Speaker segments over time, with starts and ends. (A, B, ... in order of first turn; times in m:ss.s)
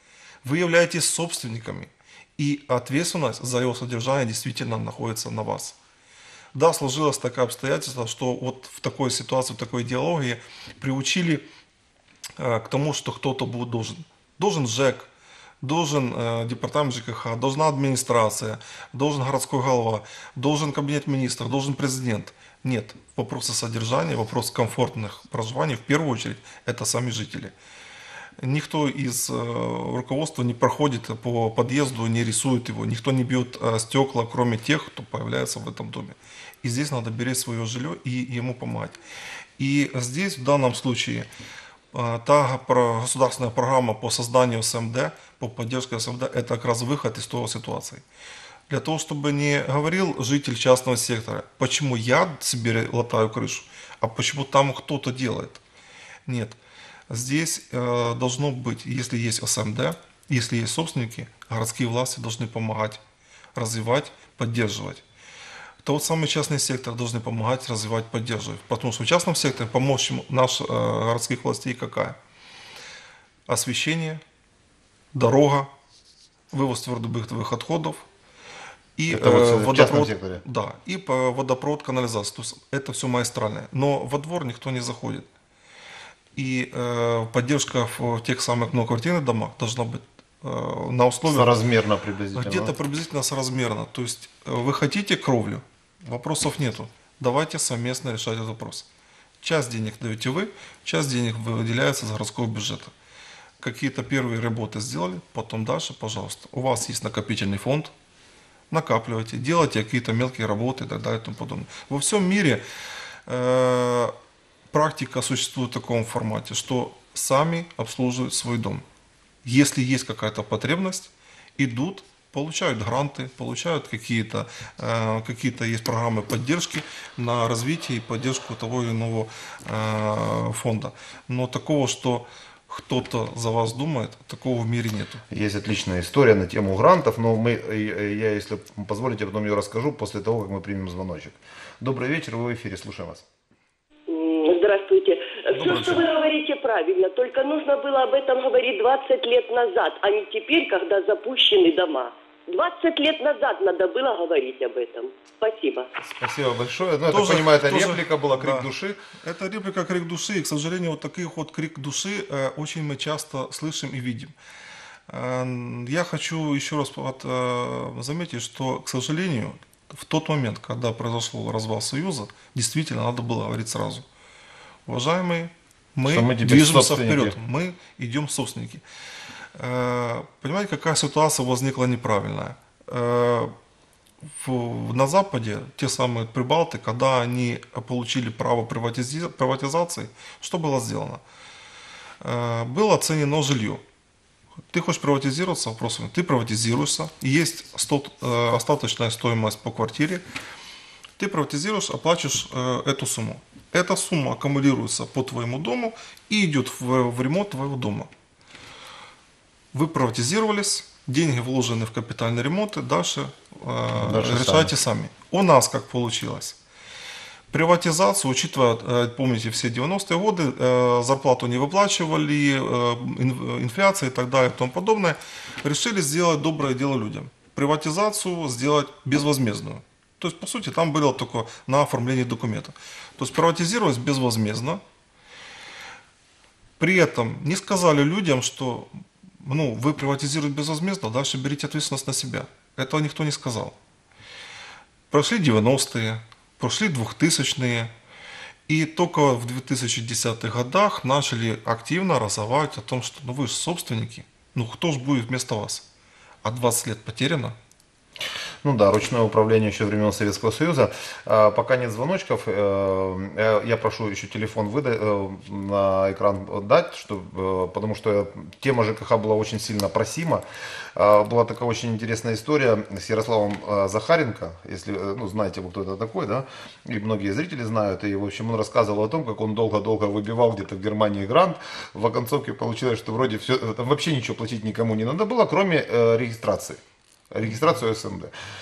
0:00.4-0:05.8 A
0:06.5-0:11.4 A
0:12.4-0:15.1 A
0:15.6-0:27.5 A
0:28.4-0:39.0 A
0:39.6-0:41.3 A
0:41.9-0:48.0 A
0:48.7-0:55.6 A
0:56.3-0:56.6 A
0:57.1-1:03.0 A
1:03.6-1:05.0 A
1:05.8-1:12.2 A
1:13.5-1:14.2 A
1:15.1-1:15.7 A
1:16.5-1:18.0 A
1:19.0-1:25.3 A
1:19.1-1:20.4 B
1:26.4-1:31.5 A
1:31.3-1:32.8 B
1:32.3-1:38.9 A
1:39.4-1:42.9 A
1:43.6-1:47.9 A
1:48.7-1:52.6 A
1:53.3-1:54.1 A
1:54.7-1:58.8 A
1:59.4-2:15.2 A
2:15.3-2:23.2 B
2:24.1-2:35.9 C
2:25.5-2:26.1 A
2:36.0-2:39.0 B
2:37.1-2:44.3 A
2:45.1-2:54.0 A
2:54.9-2:58.8 A
2:56.0-2:57.4 B
2:59.6-3:03.5 A
3:04.2-3:11.2 A
3:12.2-3:13.8 A
3:14.7-3:20.2 A
3:21.2-3:28.1 A
3:29.7-3:36.6 A
3:34.0-3:34.7 B
3:37.5-3:54.8 A
3:56.8-3:58.9 A
3:59.4-4:03.8 A
4:05.1-4:07.9 A
4:08.7-4:15.9 A
4:16.4-4:17.6 A
4:18.6-4:30.4 B
4:31.0-4:46.8 B
4:47.3-4:48.3 B